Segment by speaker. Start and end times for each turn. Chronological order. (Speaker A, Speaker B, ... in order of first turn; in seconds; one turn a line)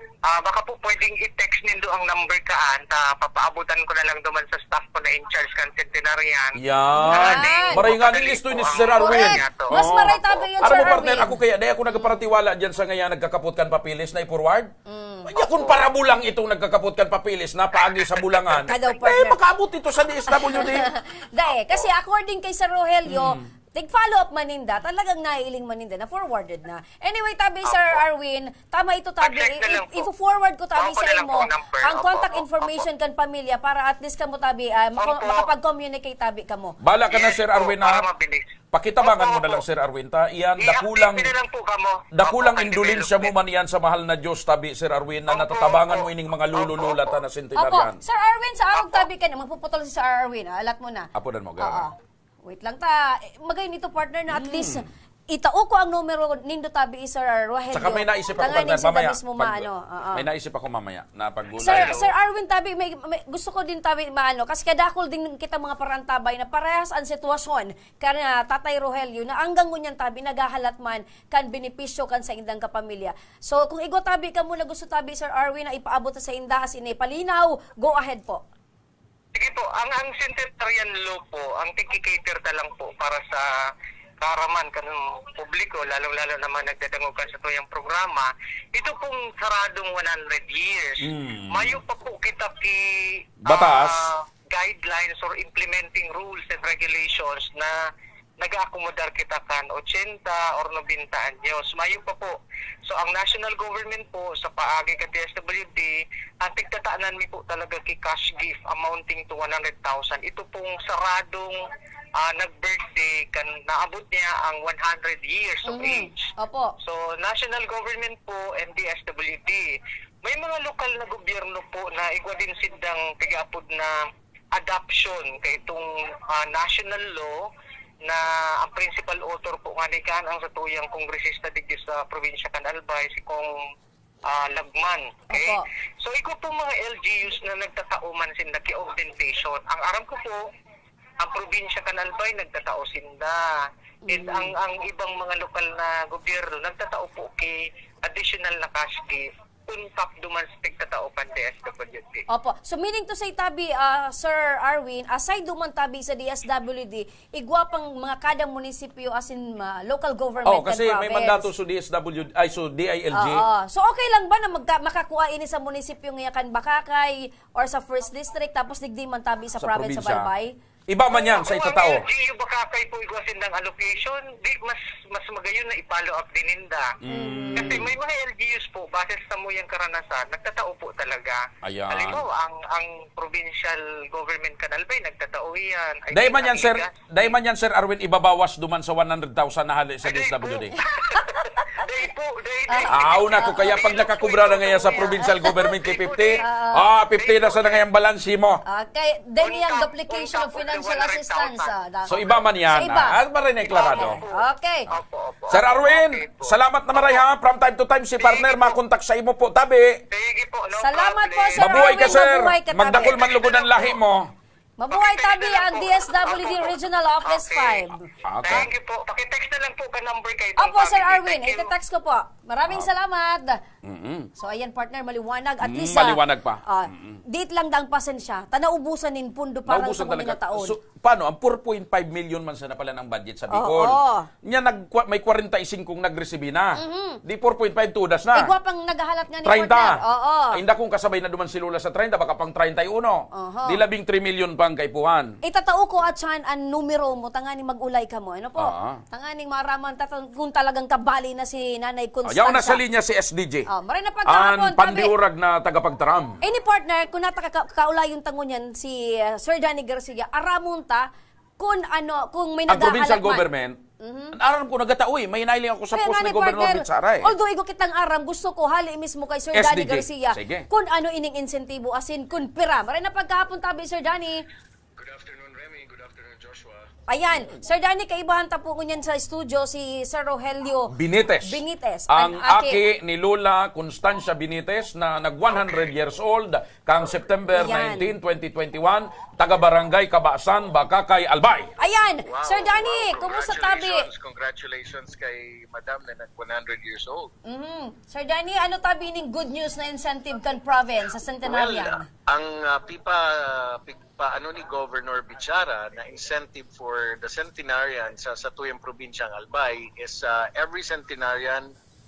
Speaker A: 0.3-9.7
Speaker B: 6.6-14.7
Speaker C: 7.1-7.9
Speaker C: 9.0-11.3
Speaker C: 14.9-15.3
Speaker B: 15.3-20.9
Speaker A: 15.4-15.8
Speaker C: 18.6-19.4
Speaker C: 20.3-36.7
Speaker B: 23.1-23.5
Speaker A: 27.7-28.0
Speaker A: 29.2-30.1
Speaker A: 30.8-32.9
Speaker A: 35.0-35.5
Speaker B: 36.8-38.0
Speaker A: 37.1-38.5
Speaker B: 38.7-41.3
Speaker A: 39.0-39.6
Speaker A: 40.6-43.3
Speaker B: 42.1-48.0
Speaker A: 45.3-47.1
Speaker C: 47.6-51.1
Speaker B: 51.1-51.9
Speaker C: 51.6-51.9
Speaker C: 52.4-60.2
Speaker B: 54.3-54.8
Speaker B: 57.7-62.0
Speaker C: 61.6-78.4
Speaker A: 79.3-83.5
Speaker A: 84.2-97.7
Speaker B: 91.0-91.8
Speaker B: 93.4-94.1
Speaker A: 98.4-102.3
Speaker A: 102.9-111.6
Speaker A: 112.2-116.3
Speaker C: 115.7-116.7
Speaker A: 116.8-119.7
Speaker A: 120.2-123.9
Speaker A: 124.5-127.4
Speaker A: 128.1-133.5
Speaker A: 134.3-140.4
Speaker C: 135.3-135.7
Speaker A: 141.2-152.2
Speaker C: 144.1-144.5
Speaker C: 152.3-161.5
Speaker B: 160.4-163.4
Speaker C: 163.1-170.5
Speaker B: 169.6-170.3
Speaker B: 170.9-172.0
Speaker A: 171.1-176.9
Speaker B: 177.0-177.9
Speaker C: 177.1-177.8
Speaker A: 177.6-186.9
Speaker B: 181.6-182.2
Speaker B: 186.1-190.7
Speaker A: 190.0-196.4
Speaker C: 192.7-193.6
Speaker B: 192.9-198.6
Speaker C: 196.4-196.8
Speaker A: 197.2-197.8
Speaker C: 198.7-203.1
Speaker A: 199.4-201.7
Speaker B: 202.1-204.2
Speaker A: 203.6-207.2
Speaker C: 203.7-204.8
Speaker B: 205.5-210.0
Speaker A: 208.2-208.8
Speaker A: 210.1-212.2
Speaker C: 210.8-213.2
Speaker B: 211.6-214.3
Speaker A: 213.2-213.9
Speaker C: 214.8-217.9
Speaker A: 214.9-217.8
Speaker B: 218.2-218.7
Speaker A: 218.4-221.7
Speaker C: 220.6-223.6
Speaker B: 223.8-224.3
Speaker C: 224.4-230.7
Speaker B: 225.6-227.2
Speaker B: 229.7-238.5
Speaker C: 233.5-234.2
Speaker C: 236.8-237.2
Speaker C: 238.3-240.6
Speaker B: 239.4-240.0
Speaker B: 240.5-245.3
Speaker C: 243.3-243.8
Speaker C: 245.4-252.8
Speaker B: 248.6-249.0
Speaker B: 252.3-253.7
Speaker C: 253.7-255.1
Speaker B: 254.2-256.4
Speaker C: 256.4-261.1
Speaker C: 261.6-263.4
Speaker B: 262.7-263.8
Speaker C: 264.0-264.3
Speaker B: 264.4-267.3
Speaker C: 265.9-274.4
Speaker B: 269.5-270.6
Speaker D: 275.0-276.9
Speaker C: 277.1-280.9
Speaker B: 280.9-291.7
Speaker C: 281.4-282.8
Speaker C: 287.5-288.1
Speaker C: 291.8-294.1
Speaker D: 292.3-297.3
Speaker C: 297.4-302.1
Speaker D: 301.4-311.7